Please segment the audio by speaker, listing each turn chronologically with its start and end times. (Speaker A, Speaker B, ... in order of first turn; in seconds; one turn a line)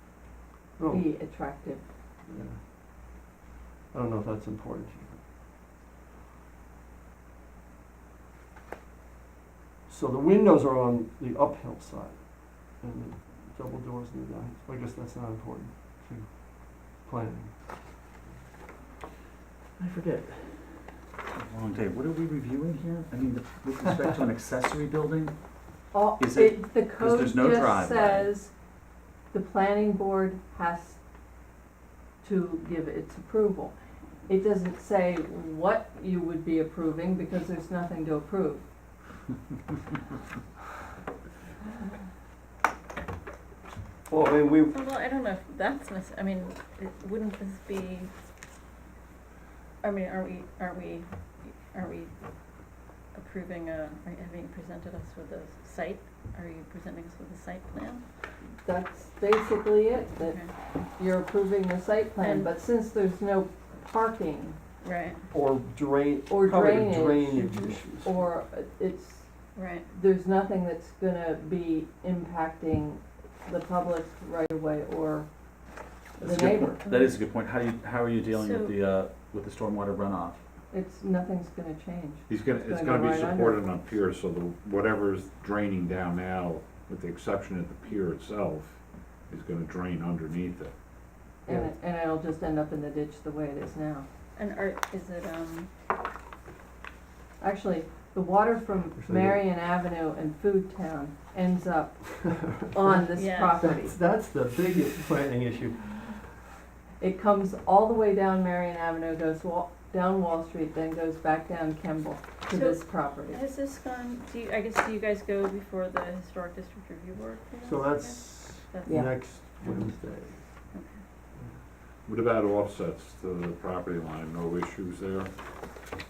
Speaker A: 0.8-1.1
Speaker B: 0.9-1.8
Speaker A: 2.3-2.6
Speaker A: 3.9-5.2
Speaker A: 9.9-12.2
Speaker A: 12.7-17.5
Speaker A: 19.8-20.3
Speaker C: 21.3-25.3
Speaker B: 25.9-28.5
Speaker C: 26.2-28.3
Speaker B: 29.3-31.0
Speaker B: 32.2-33.7
Speaker B: 34.3-38.6
Speaker A: 44.1-44.8
Speaker D: 44.7-48.1
Speaker D: 49.8-52.1
Speaker D: 53.1-58.0
Speaker B: 58.6-60.4
Speaker D: 60.2-60.5
Speaker B: 61.0-64.6
Speaker D: 62.2-62.5
Speaker D: 64.8-65.2
Speaker A: 65.3-68.1
Speaker B: 66.3-69.3
Speaker D: 69.5-69.9
Speaker B: 69.9-75.3
Speaker B: 76.2-76.8
Speaker A: 76.2-76.8
Speaker D: 76.8-77.1
Speaker C: 76.8-80.4
Speaker D: 78.3-78.8
Speaker B: 80.7-83.6
Speaker E: 82.3-90.7
Speaker B: 91.5-94.1
Speaker A: 91.5-91.7
Speaker D: 94.3-95.7
Speaker B: 97.4-103.9
Speaker A: 99.0-99.4
Speaker A: 102.2-103.0
Speaker D: 103.1-103.6
Speaker A: 103.6-106.2
Speaker B: 107.0-113.4
Speaker D: 112.5-119.8
Speaker A: 117.6-120.4
Speaker B: 118.8-119.1
Speaker D: 120.7-121.0
Speaker E: 122.0-125.3